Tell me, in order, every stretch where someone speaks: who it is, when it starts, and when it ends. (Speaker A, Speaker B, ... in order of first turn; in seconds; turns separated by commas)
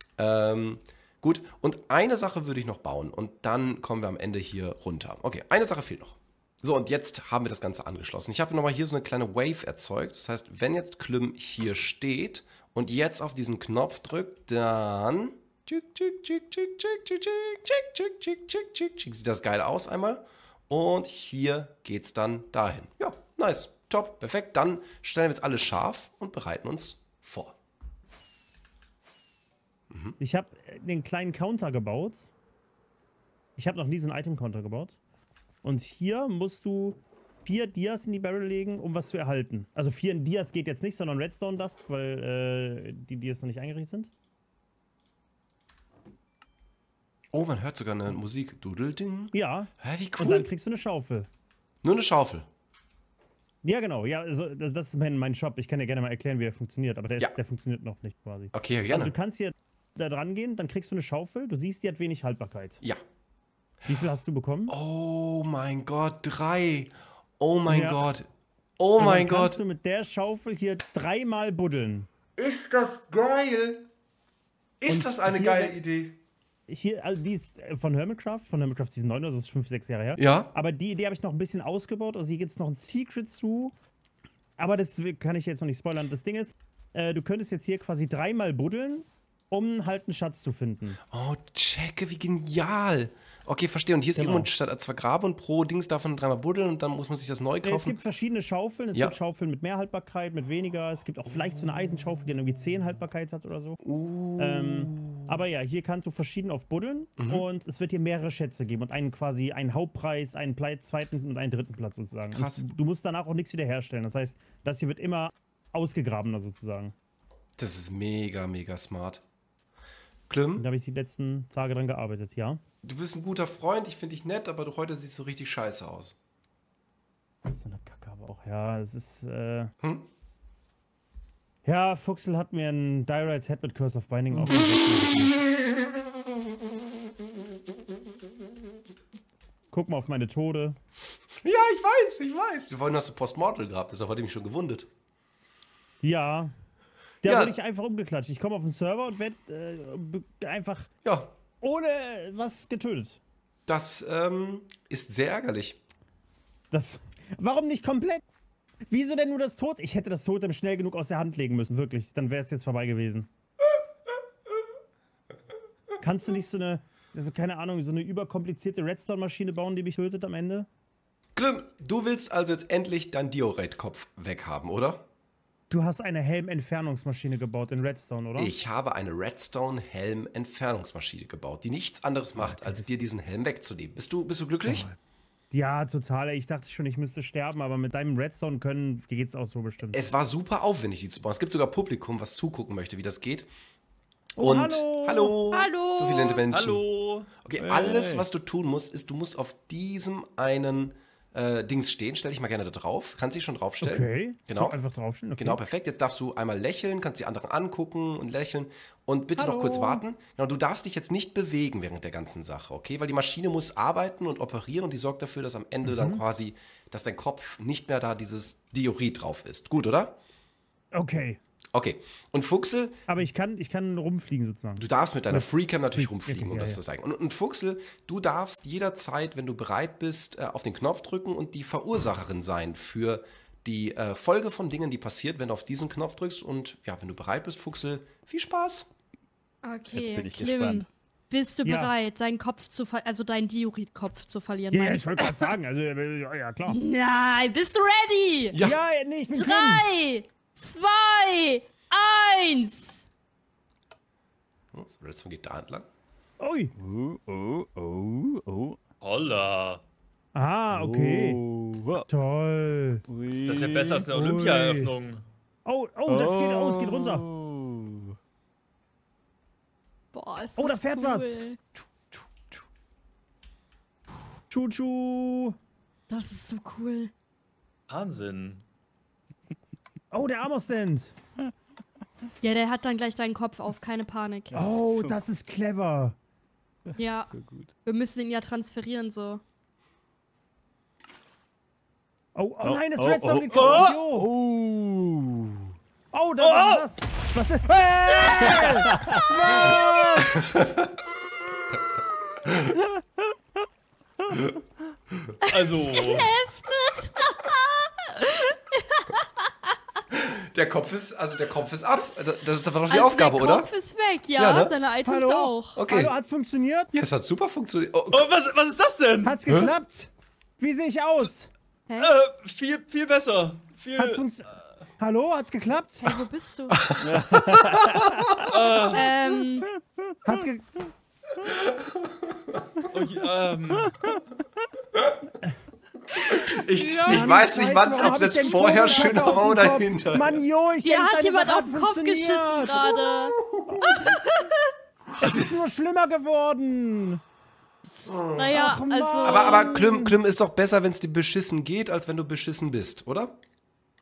Speaker A: 0.2-27.6, Speaker A: 29.9-30.2, Speaker B: 30.2-32.3, Speaker B: 33.6-35.0, Speaker B: 35.6-44.1, Speaker A: 47.3-50.5, Speaker B: 49.3-51.3, Speaker A: 51.8-52.5, Speaker B: 53.6-62.8, Speaker A: 58.5-59.1, Speaker B: 63.9-64.7, Speaker A: 64.7-69.6, Speaker B: 67.7-68.1, Speaker B: 69.0-72.1, Speaker A: 72.3-73.9, Speaker A: 74.8-76.2, Speaker B: 74.9-75.8, Speaker B: 76.7-83.7, Speaker A: 80.2-80.5, Speaker B: 84.6-91.0, Speaker A: 91.1-98.0, Speaker B: 94.2-94.5, Speaker B: 97.6-103.8, Speaker A: 103.8-105.3, Speaker B: 104.4-116.9, Speaker A: 107.2-107.4, Speaker A: 112.3-112.7, Speaker A: 117.6-119.2, Speaker A: 120.3-120.6, Speaker B: 120.5-122.6, Speaker A: 122.8-126.2, Speaker B: 127.5-129.7, Speaker B: 131.6-135.4, Speaker B: 139.7-140.8, Speaker A: 141.4-144.9, Speaker B: 146.0-146.5, Speaker B: 147.2-150.9, Speaker A: 147.2-147.5, Speaker A: 151.0-151.3, Speaker B: 151.6-153.2, Speaker A: 153.7-155.8, Speaker B: 156.7-158.2, Speaker B: 158.9-163.3, Speaker B: 166.0-170.7, Speaker A: 171.3-175.0, Speaker B: 175.7-178.5, Speaker A: 178.3-184.8, Speaker B: 182.4-182.9, Speaker B: 184.6-185.0, Speaker B: 185.5-190.0, Speaker A: 189.9-193.5, Speaker B: 194.4-195.3, Speaker A: 194.4-196.8, Speaker C: 195.5-196.4, Speaker D: 196.5-197.3, Speaker A: 197.3-204.7, Speaker E: 197.6-198.2, Speaker B: 203.8-205.6, Speaker A: 205.4-220.1, Speaker B: 209.3-210.0, Speaker B: 215.8-216.2, Speaker B: 220.9-221.4, Speaker A: 221.7-223.0, Speaker B: 223.1-226.8, Speaker A: 224.8-238.9, Speaker C: 239.6-245.5, Speaker E: 239.9-240.8, Speaker B: 241.6-241.9, Speaker B: 244.7-246.8, Speaker C: 246.7-248.6, Speaker B: 248.6-249.8, Speaker C: 249.3-253.1, Speaker A: 254.7-255.9, Speaker B: 256.4-256.7, Speaker E: 256.8-258.8, Speaker D: 259.0-259.8, Speaker B: 260.3-261.4, Speaker E: 260.7-262.1, Speaker B: 262.1-263.0, Speaker E: 263.1-264.1, Speaker D: 263.4-265.2, Speaker B: 264.1-264.9, Speaker B: 265.6-267.2, Speaker E: 266.1-268.1, Speaker C: 270.1-271.6, Speaker B: 270.6-271.4, Speaker B: 274.5-275.5, Speaker C: 276.1-277.1, Speaker D: 277.9-278.6, Speaker B: 280.1-281.1, Speaker C: 282.4-284.6, Speaker E: 284.5-285.2, Speaker B: 284.5-286.1, Speaker E: 286.9-287.7, Speaker C: 287.0-287.3, Speaker C: 287.8-289.4, Speaker B: 292.3-294.3, Speaker E: 292.6-295.7, Speaker D: 293.5-293.9, Speaker B: 296.1-300.4, Speaker D: 296.4-296.8, Speaker E: 298.6-299.2, Speaker A: 300.2-300.8, Speaker A: 302.5-302.7, Speaker C: 305.4-309.4, Speaker D: 305.5-306.3, Speaker A: 310.1-313.7, Speaker C: 312.9-315.8, Speaker A: 314.3-314.7, Speaker B: 315.0-316.9, Speaker A: 315.7-316.1, Speaker A: 316.9-318.3, Speaker D: 318.1-319.5, Speaker B: 319.2-321.5, Speaker D: 322.0-324.2, Speaker B: 323.9-326.2, Speaker C: 326.0-326.8, Speaker A: 326.7-328.3, Speaker E: 327.0-328.1, Speaker D: 328.4-329.1, Speaker C: 328.9-329.7, Speaker B: 330.2-330.9, Speaker A: 331.4-332.0, Speaker D: 332.9-334.1, Speaker C: 336.2-337.4, Speaker A: 336.2-340.4, Speaker B: 337.1-342.8, Speaker C: 338.0-339.2, Speaker C: 340.8-343.4, Speaker A: 342.8-344.1, Speaker B: 343.7-344.0, Speaker C: 344.0-344.7, Speaker B: 345.2-347.2, Speaker A: 345.2-345.5, Speaker A: 348.0-353.4, Speaker C: 348.4-349.8, Speaker B: 348.5-350.1